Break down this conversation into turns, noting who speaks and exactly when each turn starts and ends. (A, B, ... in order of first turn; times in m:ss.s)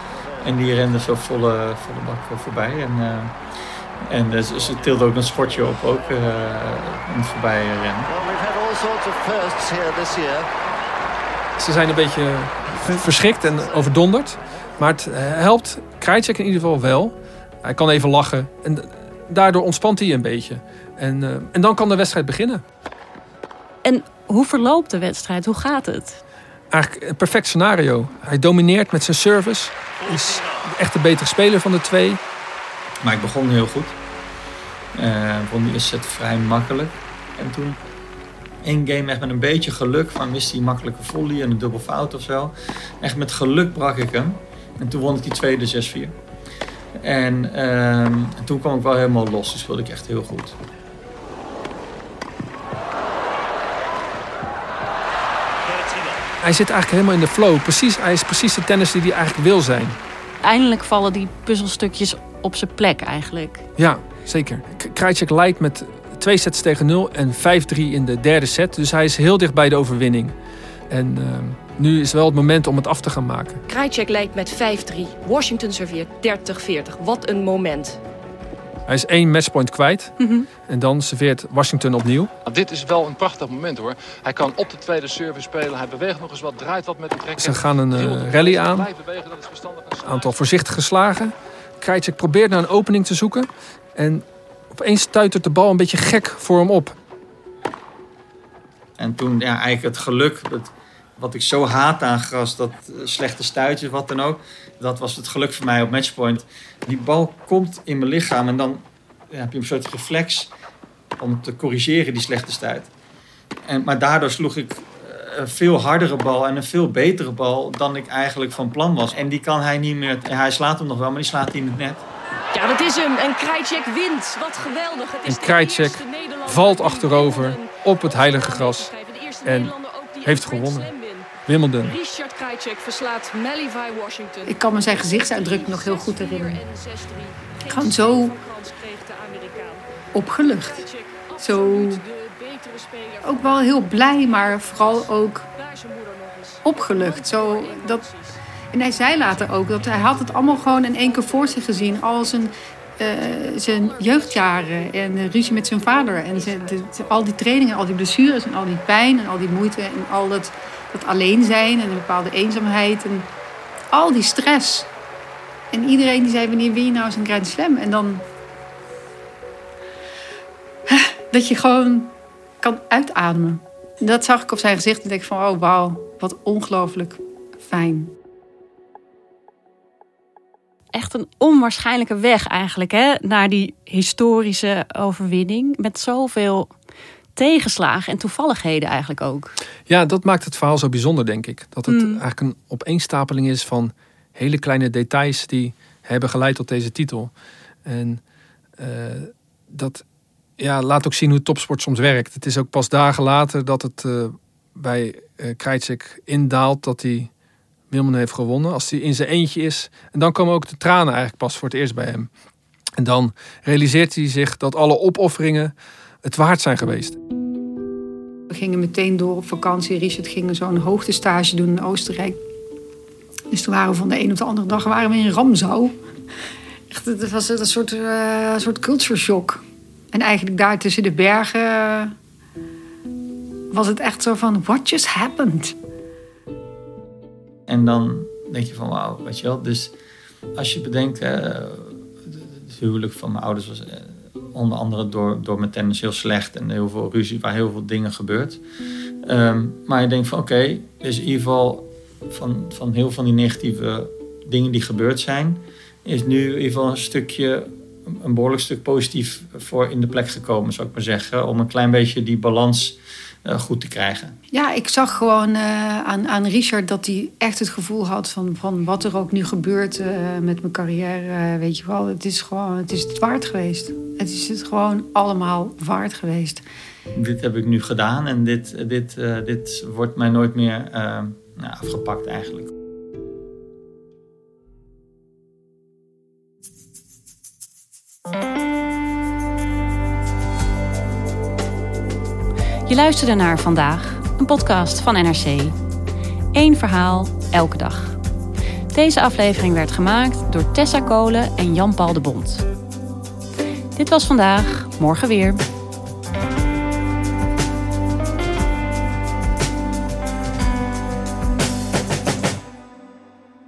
0:00.4-0:03.4 A
0:04.0-0:08.1 A
0:08.1-0:10.5 B
0:11.6-0:22.6 C
0:23.8-0:26.2 D
0:26.7-0:32.2 C
0:33.0-0:33.9 A
0:35.0-0:37.8 A
0:38.6-0:46.2 A
0:47.0-0:50.6 A
0:56.4-1:00.0 C
1:00.4-1:03.6 D
1:03.8-1:10.4 C
1:10.9-1:13.6 C
1:13.7-1:18.0 E
1:18.9-1:22.3 C
1:20.2-1:20.5 D
1:22.4-1:30.5 F
1:27.4-1:28.9 C
1:30.0-1:37.0 C
1:39.0-1:50.5 A
1:51.2-1:52.9 A
1:53.6-2:02.0 A
2:02.5-2:11.3 E
2:05.2-2:08.9 C
2:09.4-2:10.9 C
2:11.5-2:12.0 C
2:11.8-2:19.8 E
2:14.4-2:16.6 G
2:17.7-2:18.4 G
2:20.1-2:22.0 G
2:20.6-2:23.6 E
2:23.2-2:25.5 G
2:24.3-2:25.0 E
2:25.6-2:28.4 E
2:26.6-2:28.1 G
2:28.7-2:43.3 G
2:31.0-2:32.0 E
2:33.3-2:37.1 E
2:43.9-2:44.9 G
2:45.7-2:48.2 G
2:50.9-2:58.1 G
3:00.9-3:06.7 D
3:07.4-3:09.6 D
3:09.9-3:17.3 C
3:11.9-3:12.2 D
3:17.8-3:18.2 C
3:18.8-3:20.0 C
3:20.6-3:27.3 C
3:27.9-3:32.3 C
3:33.0-3:37.2 C
3:38.5-3:42.4 G
3:43.5-3:45.9 G
3:46.9-3:52.2 G
3:53.7-3:55.8 G
3:57.7-3:59.9 A
4:00.6-4:08.6 A
4:09.2-4:24.4 A
4:24.5-4:36.6 G
4:37.2-4:42.7 A
4:52.9-4:55.8 D
4:56.5-4:58.2 D
4:58.9-5:02.6 D
5:04.0-5:05.6 D